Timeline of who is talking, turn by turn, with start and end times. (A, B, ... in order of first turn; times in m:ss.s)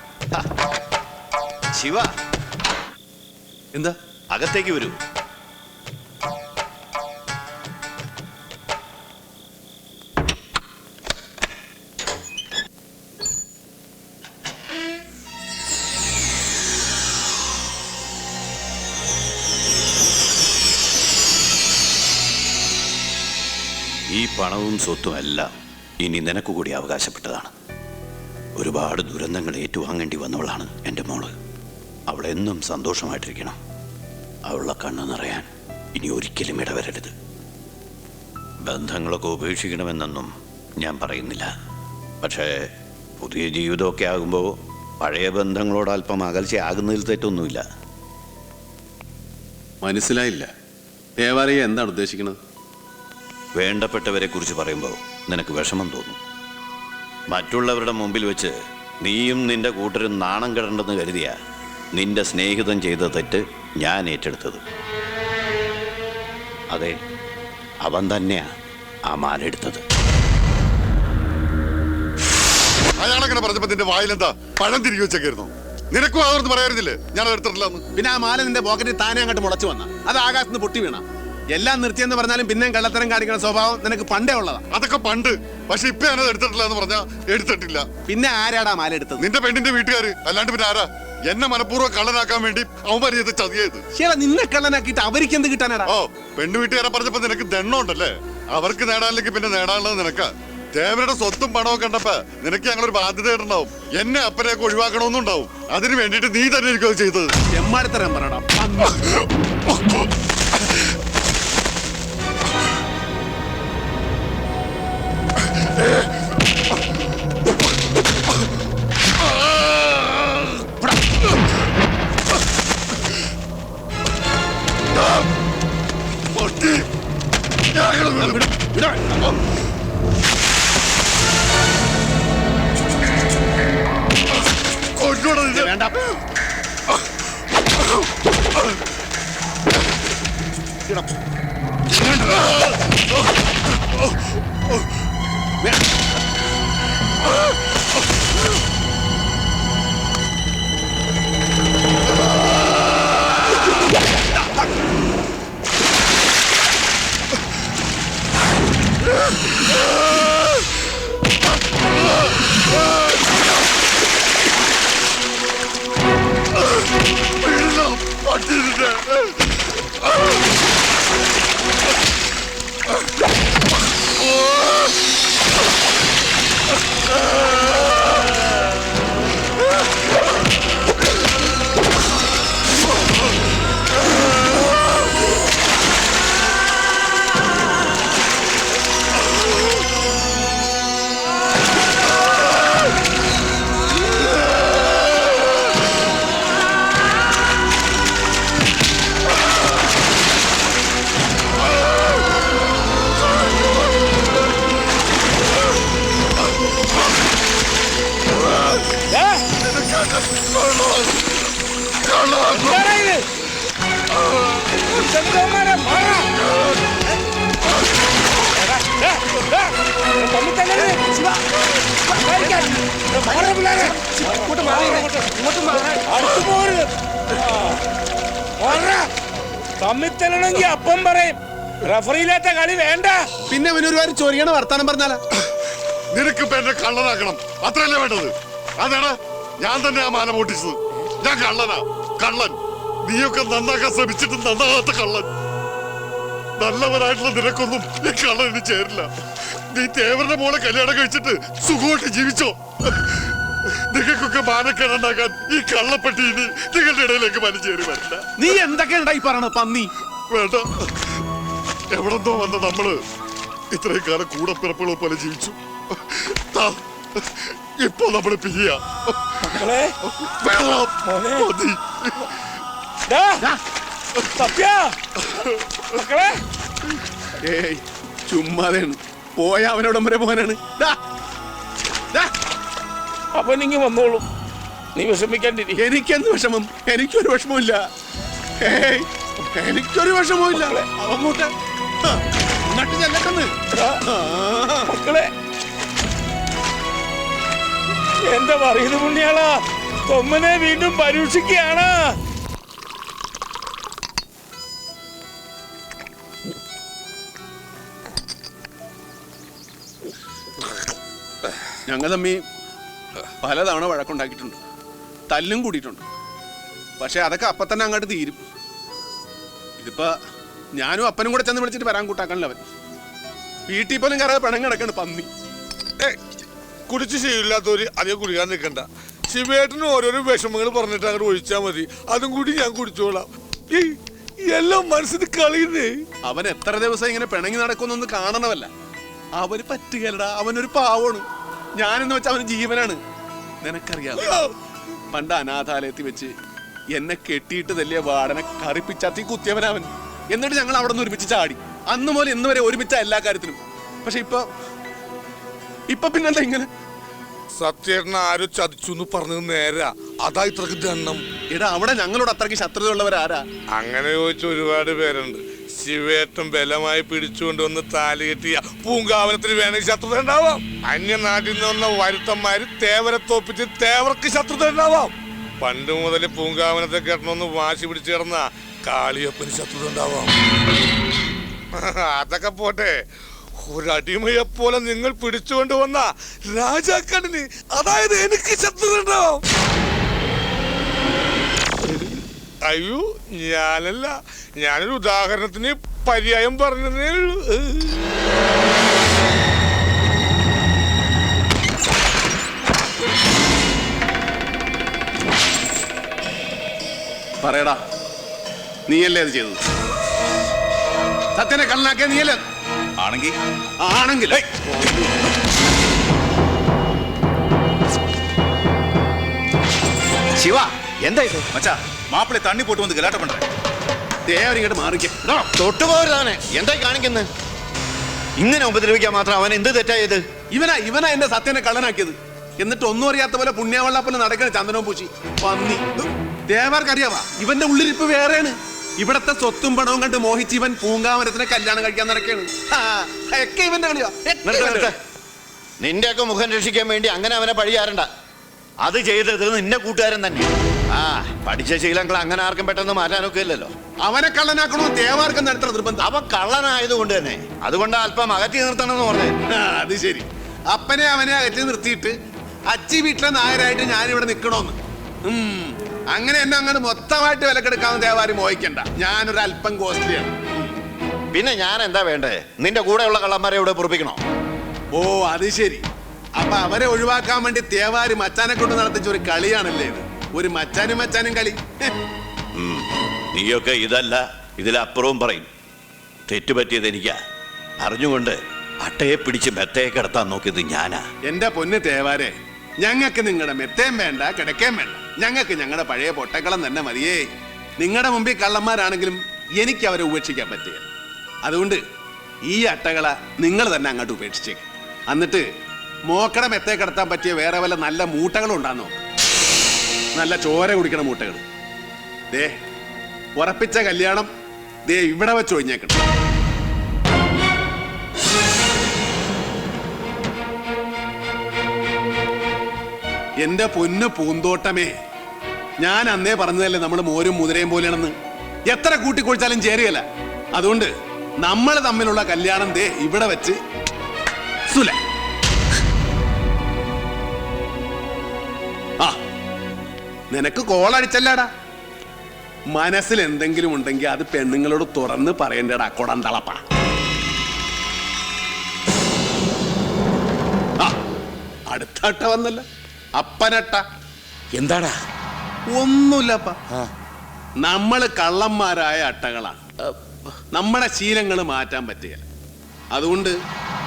0:01.8-0:02.1 A
0:04.3-0:05.0 A
0:24.1-0:27.5 A
0:28.6-0:31.4 A
0:32.1-0:33.6 A
0:34.5-0:37.1 A
0:38.6-0:41.5 A
0:42.2-0:42.7 A
0:43.2-0:47.6 A
0:49.8-0:50.5 B
0:51.2-0:52.4 B
0:53.6-0:56.2 A
0:57.3-1:01.4 A
1:02.0-1:04.6 A
1:06.7-1:07.0 A
1:07.8-1:08.5 A
1:09.1-1:09.8 A
1:13.0-1:17.8 C
1:18.0-1:24.7 B
1:24.7-1:27.9 C
1:28.1-1:29.2 B
1:29.2-1:33.8 C
1:33.9-1:35.9 B
1:35.9-1:47.3 C
1:47.5-1:49.3 B
1:59.2-2:00.5 C
2:06.4-2:06.9 C
2:07.7-2:08.4 C
2:08.2-2:09.2 B
2:15.0-2:15.7 C
2:15.5-2:16.2 B
2:21.9-2:22.4 B
2:39.9-2:40.6 C
2:47.4-2:49.6 C
3:28.9-3:29.5 D
3:29.7-3:31.1 C
3:32.2-3:33.3 D
3:34.4-3:36.3 D
3:38.4-3:41.2 D
3:42.0-3:47.8 D
3:44.2-3:45.0 B
3:48.6-3:49.1 D
3:49.8-3:53.3 D
3:53.5-3:55.2 B
3:56.1-4:05.3 C
4:06.6-4:09.1 C
4:09.7-4:13.3 C
4:13.9-4:18.3 C
4:18.4-4:19.9 B
4:20.3-4:21.2 C
4:21.9-4:23.0 C
4:23.7-4:29.5 C
4:29.4-4:30.0 D
4:30.1-4:32.3 C
4:31.0-4:31.5 D
4:33.1-4:33.5 D
4:34.3-4:35.0 D
4:35.8-4:36.4 D
4:37.4-4:41.0 B
4:43.3-4:44.3 D
4:45.0-4:45.8 D
4:45.8-4:47.8 B
4:48.6-4:51.5 B
4:50.6-4:50.8 D
4:52.0-4:53.5 B
4:53.7-4:54.0 D
4:54.0-4:54.9 B
4:54.9-4:55.3 D
4:58.2-5:02.2 D
5:11.9-5:12.4 B
5:13.4-5:14.6 B
5:15.3-5:16.1 B
5:17.0-5:18.4 B
5:19.8-5:20.2 B
5:20.8-5:22.6 B
5:23.7-5:25.3 B
5:26.9-5:36.0 E
5:36.2-5:38.7 B
5:39.4-5:43.0 B
5:43.6-5:44.4 B
5:44.2-5:44.5 E
5:45.1-5:46.3 B
5:46.9-5:54.5 B
5:55.9-5:56.7 B
5:57.6-6:01.2 E
6:01.5-6:03.4 B
6:03.8-6:20.3 E
6:21.8-6:23.0 E
6:23.6-6:29.4 E
6:31.8-6:38.0 E
6:47.4-6:47.8 B
6:48.9-6:49.6 B
6:51.4-6:52.4 B
6:53.0-6:53.4 F
6:53.8-6:54.4 B
7:00.4-7:01.5 A
7:01.5-7:03.5 F
7:04.3-7:05.3 B
7:05.3-7:07.3 A
7:08.4-7:10.2 A
7:10.5-7:24.9 B
7:24.4-7:24.9 A
7:25.8-7:28.1 A
7:28.8-7:33.7 A
7:34.0-7:36.0 B
7:36.0-7:39.3 A
7:39.5-7:42.2 B
7:42.7-7:50.4 B
7:51.3-7:54.2 A
7:54.9-7:55.9 B
7:56.4-8:01.9 B
8:02.6-8:05.5 A
8:06.3-8:07.2 A
8:07.8-8:11.0 A
8:11.2-8:17.3 B
8:17.8-8:20.9 B
8:21.4-8:21.8 B
8:22.5-8:25.5 B
8:26.1-8:29.0 B
8:30.2-8:31.4 B
8:33.4-8:34.3 B
8:34.9-8:36.0 B
8:43.4-8:45.0 B
8:45.8-8:48.2 B
8:48.7-8:53.6 B
8:54.7-8:55.0 B
9:00.3-9:01.5 B
9:02.7-9:06.6 B
9:11.7-9:12.6 B
9:13.2-9:13.8 B
9:14.5-9:15.0 D
9:15.7-9:16.6 B
9:17.6-9:20.0 B
9:20.5-9:22.3 B
9:22.9-9:23.4 B